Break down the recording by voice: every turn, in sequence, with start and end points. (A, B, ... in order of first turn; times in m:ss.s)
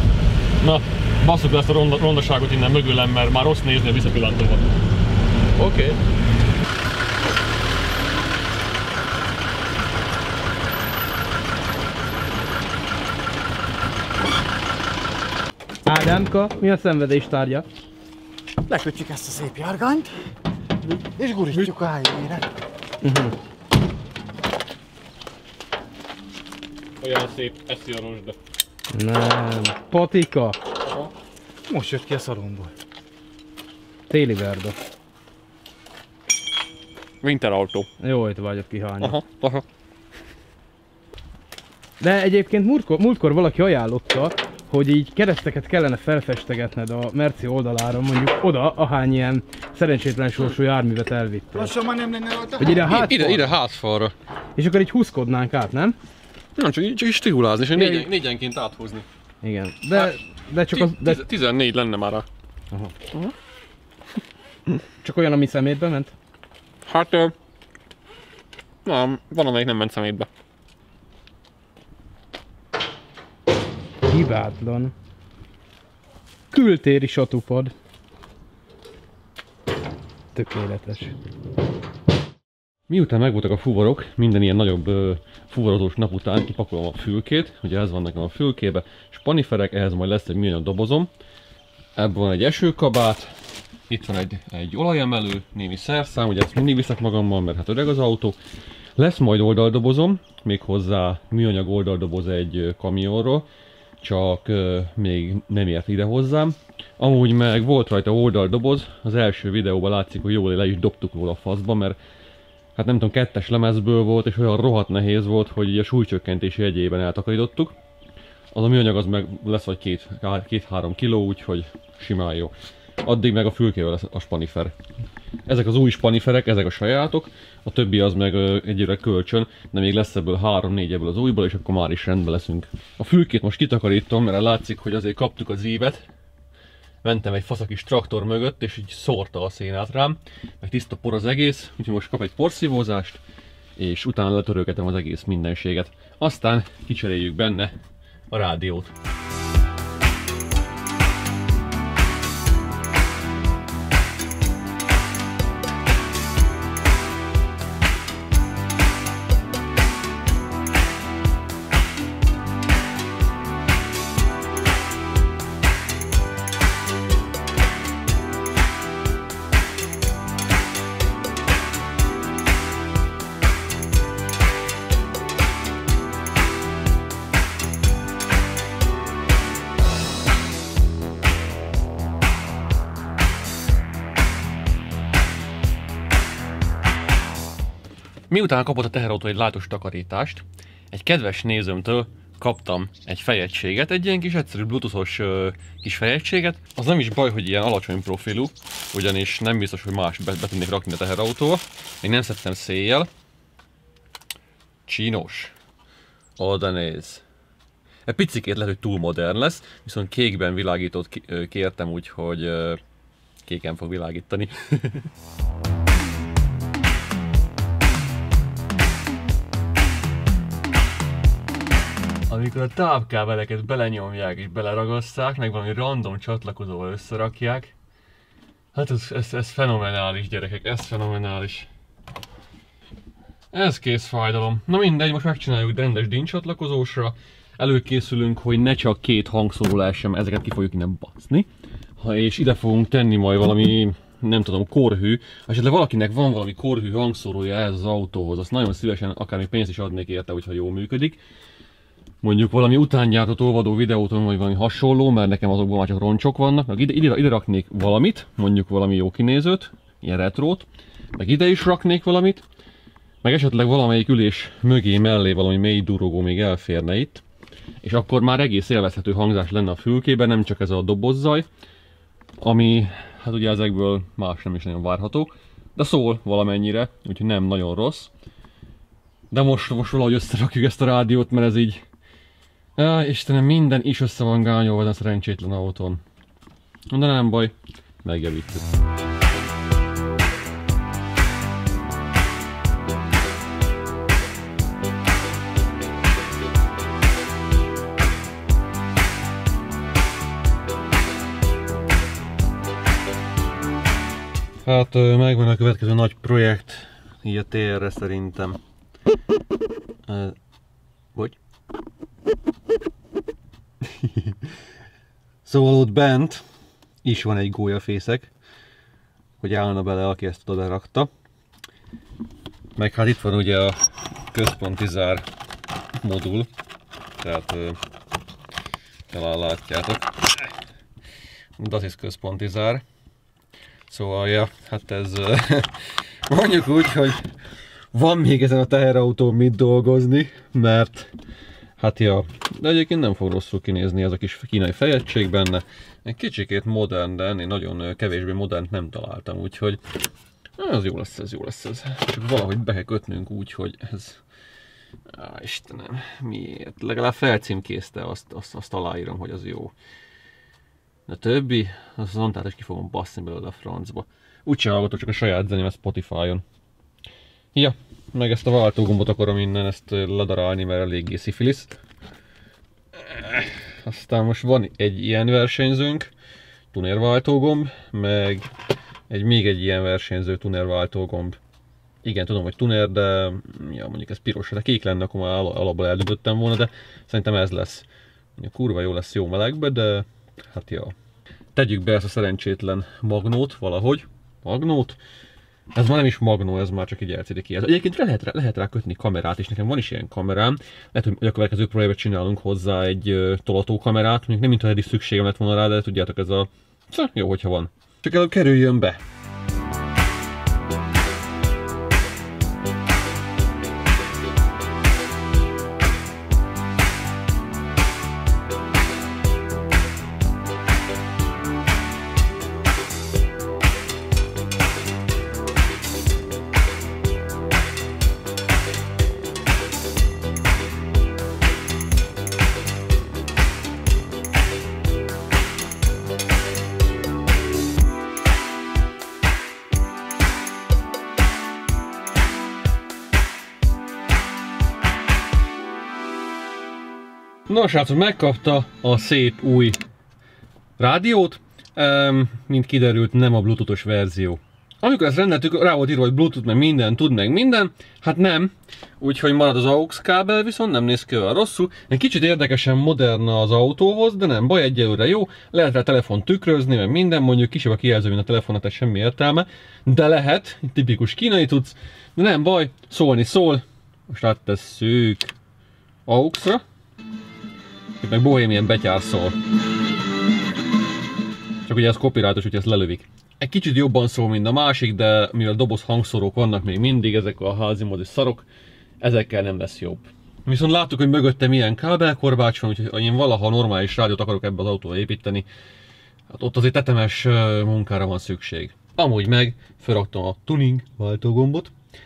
0:00.6-0:04.6 A
0:05.6-0:06.0 B
0:15.9-0:17.6 B
0:18.7-0:20.2 C
0:21.1-0:22.5 C
0:23.0-0:23.4 B
0:27.0-0:28.4 A
0:28.9-0:30.6 B
0:30.8-0:31.1 A
0:31.7-0:32.7 C
0:34.1-0:34.8 B
0:37.2-0:37.9 A
0:38.0-0:39.2 B
0:39.0-0:39.6 A
0:42.0-0:51.7 B
0:51.5-0:53.0 C
0:52.6-0:53.5 B
0:52.8-0:54.1 A
0:54.6-0:56.0 B
0:56.6-0:59.0 A
0:57.8-0:58.1 B
0:59.4-1:01.2 B
1:00.7-1:02.3 A
1:05.0-1:06.1 B
1:06.9-1:07.3 A
1:08.8-1:10.3 A
1:14.1-1:14.9 B
1:16.5-1:17.7 B
1:20.4-1:21.2 B
1:22.9-1:31.1 A
1:32.0-1:33.3 A
1:33.9-1:38.4 A
1:39.0-1:43.5 A
1:44.0-1:52.0 A
1:52.8-1:57.8 A
1:58.5-2:04.8 A
2:05.5-2:16.0 A
2:17.0-2:23.2 A
2:23.8-2:27.8 A
2:28.3-2:28.9 A
3:08.3-3:23.1 A
3:24.9-3:25.5 A
3:26.4-3:27.2 A
3:28.1-3:32.8 A
3:33.4-3:35.1 A
3:42.3-3:47.7 A
3:48.7-3:51.7 A
3:53.5-4:11.2 A
4:12.2-4:22.4 A
4:23.2-4:27.2 A
4:27.8-4:31.5 A
4:32.4-4:38.1 A
4:39.3-4:41.8 A
4:42.8-4:46.0 A
4:46.9-4:48.7 A
5:04.6-5:08.6 A
5:10.1-5:10.4 A
5:13.9-5:14.4 A
5:15.5-5:16.4 A
5:17.0-5:18.3 A
5:19.4-5:21.1 A
5:22.8-5:23.8 A
5:24.3-5:25.3 A
5:26.0-5:26.5 A
5:27.2-5:27.8 A
5:29.1-5:30.5 A
5:31.6-5:32.8 A
5:33.9-5:35.7 A
5:36.3-5:37.3 A
5:37.9-5:41.1 A
5:41.8-5:49.8 A
5:50.6-5:54.2 A
5:55.1-5:59.7 A
6:01.1-6:06.4 A
6:07.5-6:11.8 A
6:13.0-6:16.1 A
6:16.7-6:18.5 A
6:19.1-6:21.4 A
6:22.0-6:27.8 A
6:28.4-6:30.9 A
6:31.6-6:35.0 A
6:35.7-6:49.0 A
7:27.5-7:29.8 A
7:30.8-7:55.4 A
7:56.1-7:56.6 A
7:58.0-7:59.4 A
8:01.7-8:08.5 A
8:09.0-8:15.5 A
8:16.3-8:21.7 A